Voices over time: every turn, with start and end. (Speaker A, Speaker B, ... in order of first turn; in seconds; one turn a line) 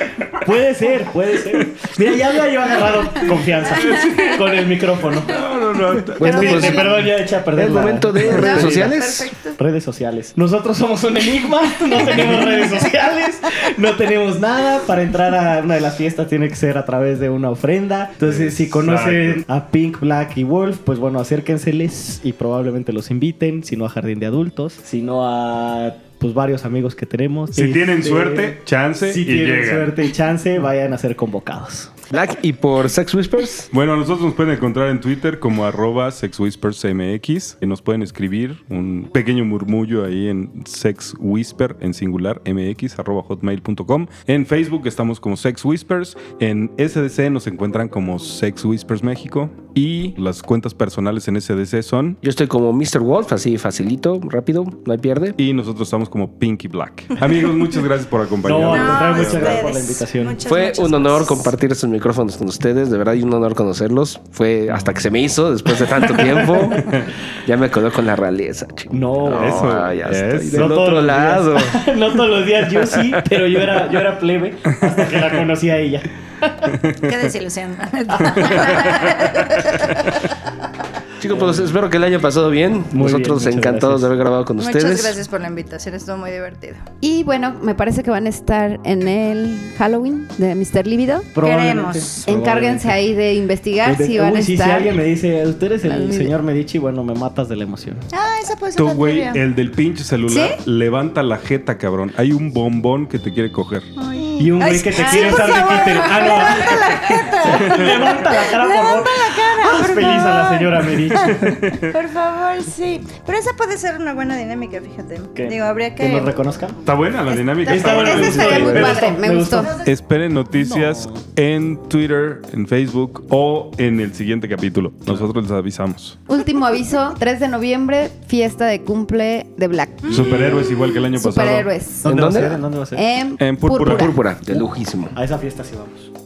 Speaker A: 0.4-5.4
Speaker B: 3.8-4.4
Speaker B: 5.3-6.9
Speaker C: 6.2-9.3
Speaker A: 6.2-32.0
Speaker D: 6.3-6.6
Speaker D: 8.2-9.6
Speaker B: 18.2-19.4
Speaker B: 27.5-29.9
Speaker C: 32.1-33.7
Speaker B: 33.7-52.2
Speaker C: 52.2-55.4
Speaker B: 55.4-59.6
Speaker A: 58.4-60.4
Speaker E: 58.7-61.5
Speaker C: 60.5-71.8
Speaker B: 66.7-67.1
Speaker A: 68.9-69.9
Speaker B: 69.3-70.8
Speaker A: 70.5-76.8
Speaker B: 74.7-75.4
Speaker B: 76.7-77.3
Speaker E: 77.0-80.2
Speaker B: 78.3-80.3
Speaker C: 81.2-85.2
Speaker A: 81.2-81.8
Speaker A: 82.9-84.1
Speaker E: 84.6-86.8
Speaker D: 87.0-91.3
Speaker A: 91.3-93.0
Speaker E: 91.4-92.2
Speaker D: 92.2-95.0
Speaker A: 93.8-98.0
Speaker D: 95.8-96.3
Speaker E: 98.1-99.4
Speaker B: 98.8-103.9
Speaker D: 100.3-100.6
Speaker E: 104.0-116.3
Speaker A: 104.4-111.6
Speaker D: 105.0-106.0
Speaker B: 111.4-112.0
Speaker A: 115.3-116.8
Speaker B: 116.8-119.1
Speaker D: 117.6-119.7
Speaker A: 117.7-119.7
Speaker E: 119.6-119.9
Speaker B: 119.8-126.2
Speaker A: 120.6-121.2
Speaker D: 126.3-132.0
Speaker B: 130.1-131.7
Speaker A: 130.1-130.7
Speaker C: 132.0-132.6
Speaker A: 132.0-133.0
Speaker D: 132.9-134.2
Speaker B: 133.4-134.1
Speaker C: 133.7-135.1
Speaker A: 135.1-136.1